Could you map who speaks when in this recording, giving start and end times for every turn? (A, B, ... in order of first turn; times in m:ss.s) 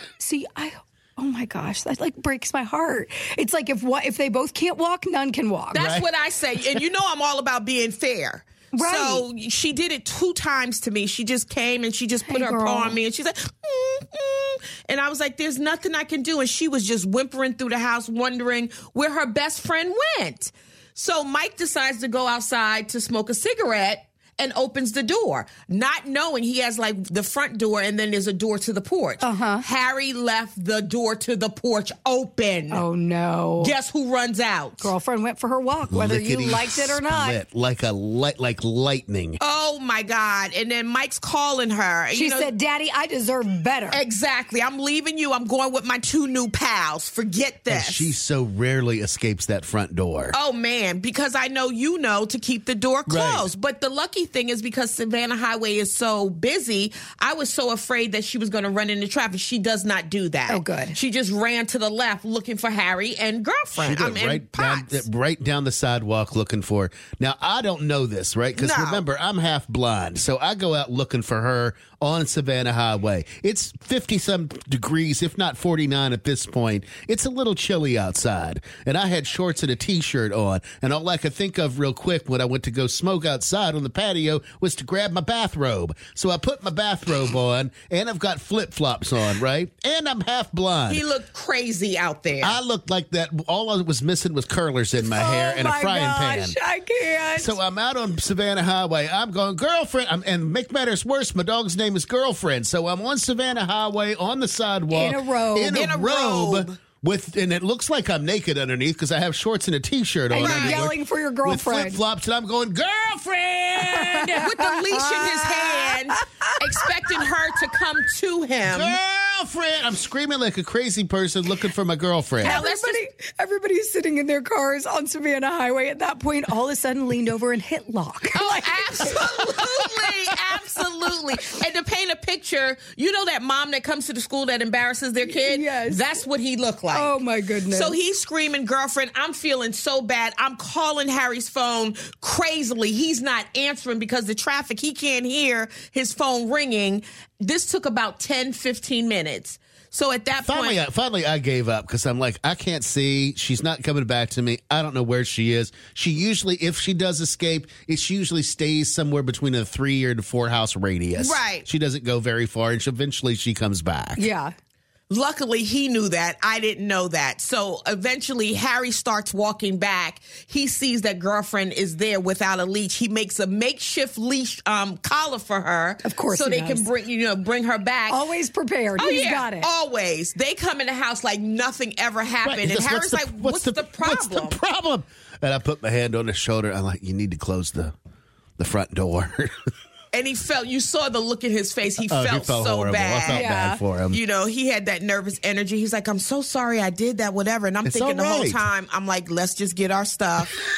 0:00.2-0:05.9 A
0:05.7-0:32.8 B
0:05.8-0:06.0 C
0:08.8-0:09.2 A
0:12.2-0:13.0 A
0:29.2-0:29.6 A
0:32.7-0:33.8 A
0:33.6-0:34.9 B
0:34.8-0:37.4 A
0:35.9-0:39.4 C
0:39.4-0:42.5 B
0:42.1-0:44.0 A
0:43.9-0:48.1 B
0:47.7-0:50.3 C
0:50.3-1:05.1 B
0:53.1-0:53.5 C
1:00.5-1:01.0 A
1:03.7-1:31.0 C
1:08.6-1:09.0 B
1:30.9-1:32.6 B
1:32.4-1:36.6 C
1:35.0-1:37.6 A
1:37.3-1:54.4 C
1:44.9-1:45.8 A
1:45.7-1:46.8 B
1:50.3-1:52.0 A
1:50.4-1:50.9 B
1:53.9-1:56.6 A
1:54.1-1:59.0 B
1:58.6-2:02.6 C
2:02.4-2:03.0 B
2:02.4-2:09.3 A
2:08.3-2:17.1 B
2:15.2-2:16.2 A
2:16.9-2:18.0 A
2:17.6-2:30.8 B
2:30.4-2:44.3 C
2:41.2-2:41.6 B
2:44.2-2:44.5 A
2:45.1-2:58.2 B
2:56.0-2:56.9 A
2:58.1-2:59.7 A
2:59.0-3:04.6 B
3:02.4-3:07.9 C
3:08.6-3:09.5 C
3:10.1-3:13.5 B
3:12.1-3:14.2 C
3:13.3-3:13.8 A
3:14.1-3:20.5 B
3:17.8-3:18.6 C